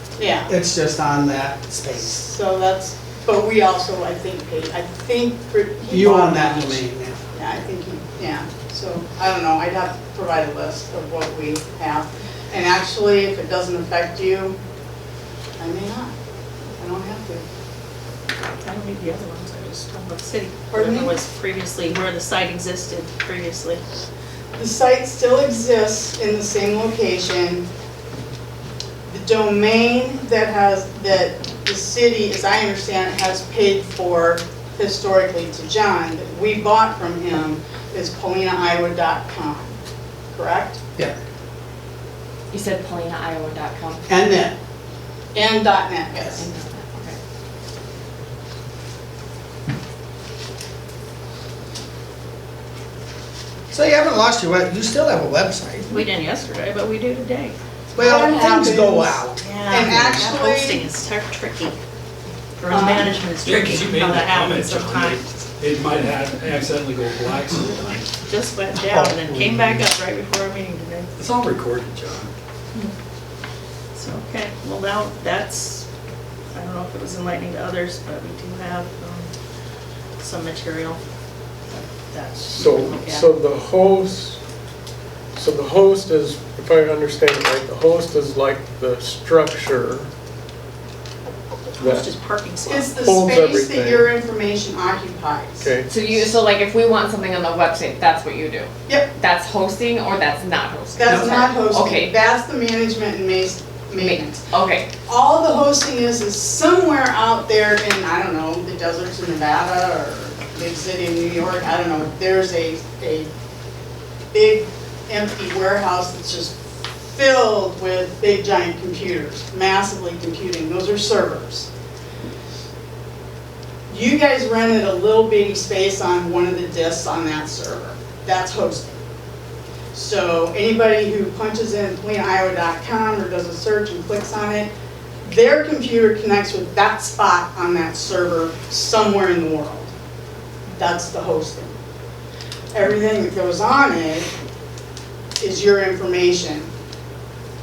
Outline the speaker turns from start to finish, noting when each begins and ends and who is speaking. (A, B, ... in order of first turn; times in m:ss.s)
0:00.2-0:00.5 A
0:00.4-0:02.2 B
0:02.0-0:14.6 A
0:05.9-0:07.2 B
0:15.6-0:16.1 A
0:16.8-0:17.4 A
0:18.5-0:23.8 C
0:20.7-0:21.2 A
0:24.6-0:27.7 A
0:29.1-0:39.8 A
0:40.3-0:40.8 A
0:42.5-0:44.0 D
0:44.1-0:44.5 B
0:45.3-0:46.4 A
0:46.2-0:47.2 D
0:53.7-0:55.9 B
0:55.9-0:57.6 C
0:57.9-1:00.2 B
0:58.0-1:00.9 A
0:59.4-1:01.8 C
1:02.6-1:05.2 C
1:02.7-1:03.1 A
1:03.4-1:08.1 E
1:08.2-1:11.1 C
1:08.9-1:09.5 B
1:09.3-1:09.6 E
1:11.2-1:12.3 E
1:13.9-1:15.8 C
1:16.5-1:19.3 C
1:20.2-1:21.0 C
1:21.7-1:23.3 C
1:22.5-1:24.4 F
1:25.3-1:30.1 F
1:31.8-1:32.1 F
1:31.8-1:33.2 C
1:32.6-1:36.3 A
1:33.0-1:34.1 F
1:35.6-1:35.9 F
1:35.8-1:42.1 D
1:38.8-1:39.1 A
1:41.0-1:44.4 A
1:43.9-1:44.9 D
1:45.1-1:53.3 A
1:54.3-2:01.7 A
2:03.9-2:09.0 A
2:09.9-2:14.7 A
2:15.2-2:19.9 A
2:20.7-2:21.7 A
2:22.7-2:24.3 A
2:25.4-2:26.7 A